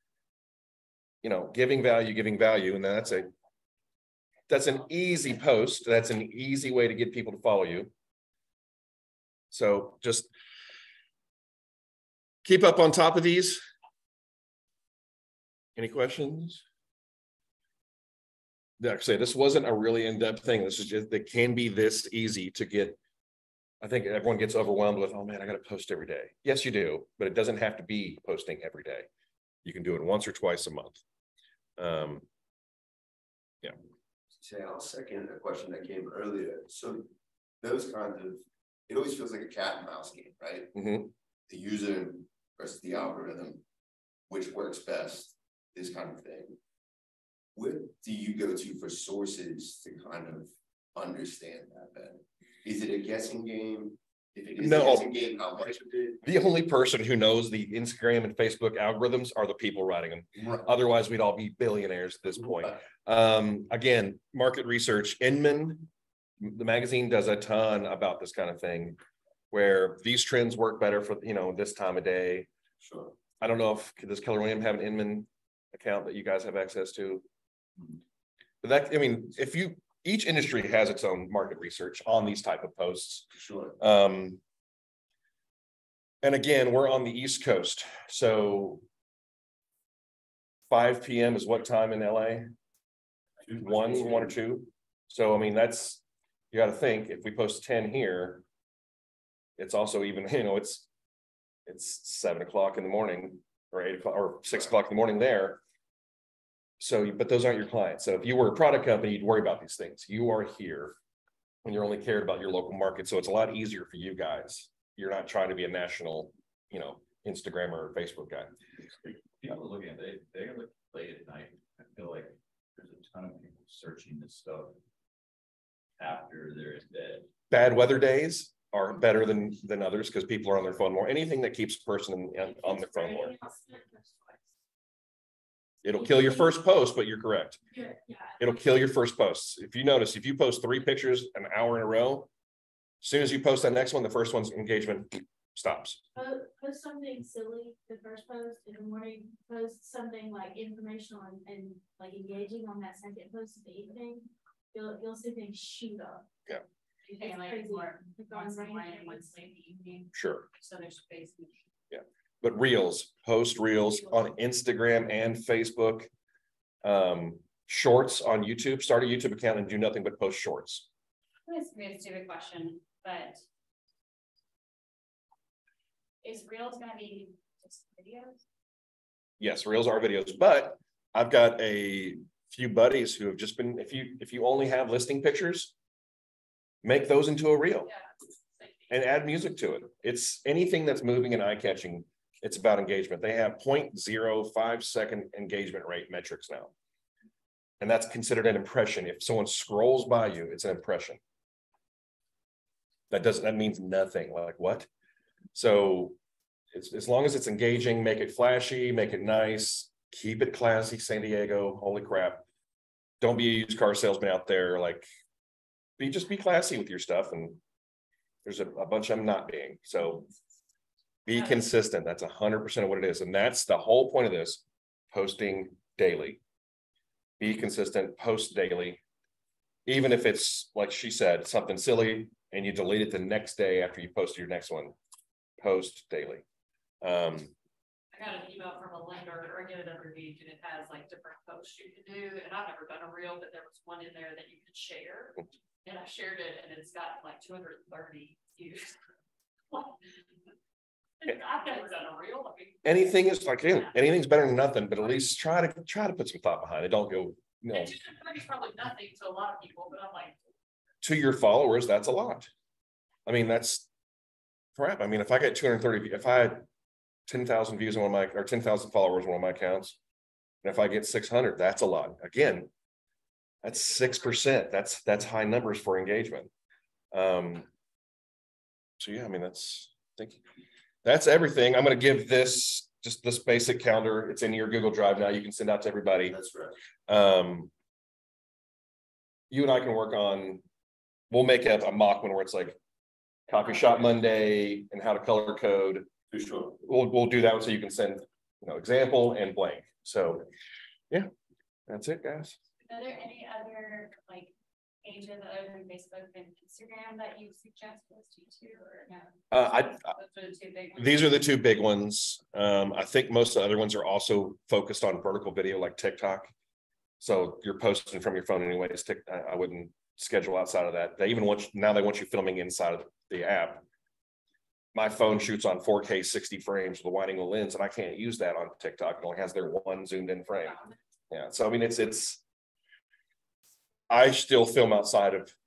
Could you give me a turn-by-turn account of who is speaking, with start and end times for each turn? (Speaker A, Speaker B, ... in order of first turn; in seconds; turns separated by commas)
Speaker A: 1.2-3.3, Speaker A: 4.5-7.9, Speaker A: 9.5-10.3, Speaker A: 12.4-13.6, Speaker A: 15.8-16.6, Speaker A: 18.8-23.0, Speaker A: 23.8-29.1, Speaker A: 29.6-31.0, Speaker A: 31.8-32.2, Speaker B: 34.3-37.1, Speaker B: 37.6-40.7, Speaker A: 40.7-41.1, Speaker B: 41.5-43.6, Speaker B: 44.3-46.6, Speaker B: 47.5-56.2, Speaker A: 54.6-55.1, Speaker A: 56.2-65.9, Speaker B: 60.3-60.6, Speaker A: 66.4-69.0, Speaker A: 69.5-72.5, Speaker B: 72.8-73.1, Speaker A: 73.4-77.2, Speaker A: 78.6-83.3, Speaker B: 83.3-83.8, Speaker A: 83.8-84.4, Speaker A: 86.2-88.8, Speaker A: 90.7-92.5, Speaker B: 93.5-94.3, Speaker A: 93.6-98.4, Speaker A: 99.6-100.8, Speaker A: 101.7-105.6, Speaker A: 106.8-110.9, Speaker A: 111.6-118.5, Speaker C: 119.4-124.7, Speaker C: 126.0-127.3, Speaker A: 127.5-133.3, Speaker D: 132.5-134.5, Speaker A: 135.8-137.6, Speaker D: 135.9-136.5, Speaker D: 137.7-138.6, Speaker A: 138.4-142.3, Speaker A: 143.0-146.0, Speaker D: 146.2-156.2, Speaker E: 157.0-161.6, Speaker D: 157.2-159.3, Speaker A: 160.1-160.4, Speaker A: 161.9-166.1, Speaker A: 166.8-170.9, Speaker E: 171.5-173.4, Speaker E: 176.2-178.4, Speaker A: 179.4-185.7, Speaker A: 186.8-187.9, Speaker F: 188.6-188.8, Speaker A: 188.9-196.7, Speaker A: 197.8-201.2, Speaker A: 203.1-204.9, Speaker A: 205.5-206.2, Speaker A: 206.7-212.4, Speaker A: 213.2-215.1, Speaker A: 216.0-217.6, Speaker A: 218.4-220.3, Speaker A: 221.2-226.4, Speaker A: 227.4-229.0, Speaker A: 229.8-234.9, Speaker A: 235.6-236.4, Speaker A: 237.0-237.5, Speaker F: 238.1-249.0, Speaker F: 249.7-250.1, Speaker F: 251.2-252.8, Speaker A: 252.8-257.9, Speaker F: 257.7-260.4, Speaker A: 261.0-262.5, Speaker A: 263.2-263.9, Speaker A: 264.8-266.6, Speaker A: 267.3-270.0, Speaker A: 270.6-272.7, Speaker A: 273.6-276.5, Speaker A: 277.1-277.7, Speaker A: 279.0-280.4, Speaker A: 281.0-286.3, Speaker B: 286.2-286.8, Speaker A: 287.1-287.7, Speaker A: 289.5-290.6, Speaker A: 291.3-292.8, Speaker A: 293.5-296.1, Speaker B: 296.3-296.8, Speaker A: 296.8-300.4, Speaker A: 301.9-302.6, Speaker E: 302.8-311.4, Speaker A: 309.5-310.1, Speaker A: 310.9-316.5, Speaker A: 317.2-323.8, Speaker A: 324.9-330.7, Speaker E: 330.6-330.9, Speaker A: 331.3-332.4, Speaker A: 334.1-335.5